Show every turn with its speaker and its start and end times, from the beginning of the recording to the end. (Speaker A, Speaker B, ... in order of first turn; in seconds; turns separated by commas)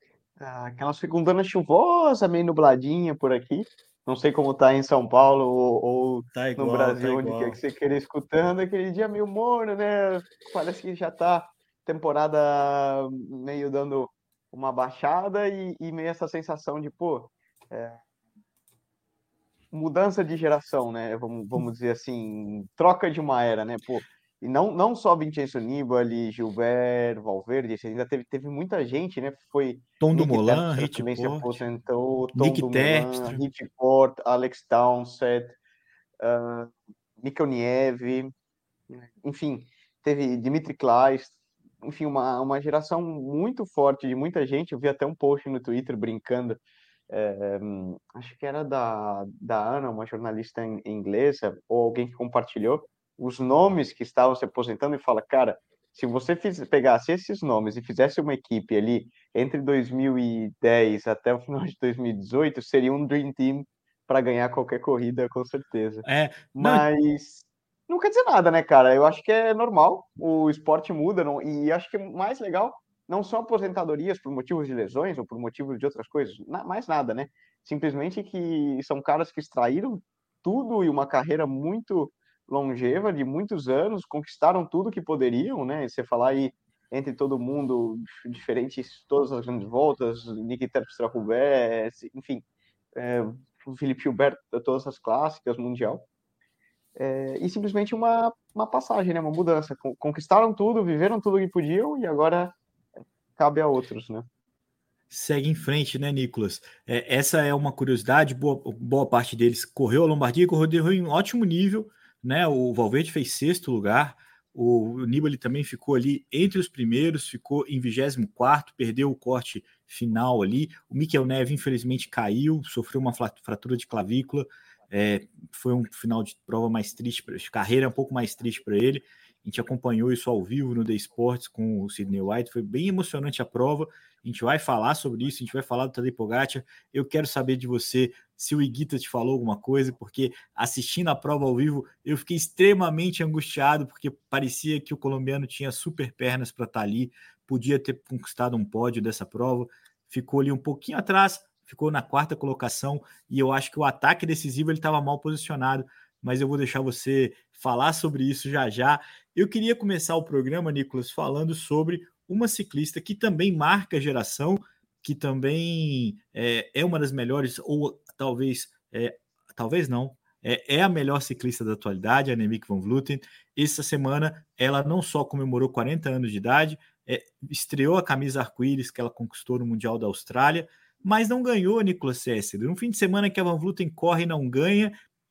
Speaker A: 0.4-18.0, Speaker B: 6.3-7.6, Speaker A: 19.7-35.6, Speaker B: 30.0-31.6, Speaker B: 32.3-33.4, Speaker A: 36.2-38.3, Speaker A: 38.9-92.4, Speaker B: 66.0-66.8, Speaker A: 93.0-96.0, Speaker A: 97.0-102.5, Speaker A: 103.4-104.3, Speaker B: 105.1-184.9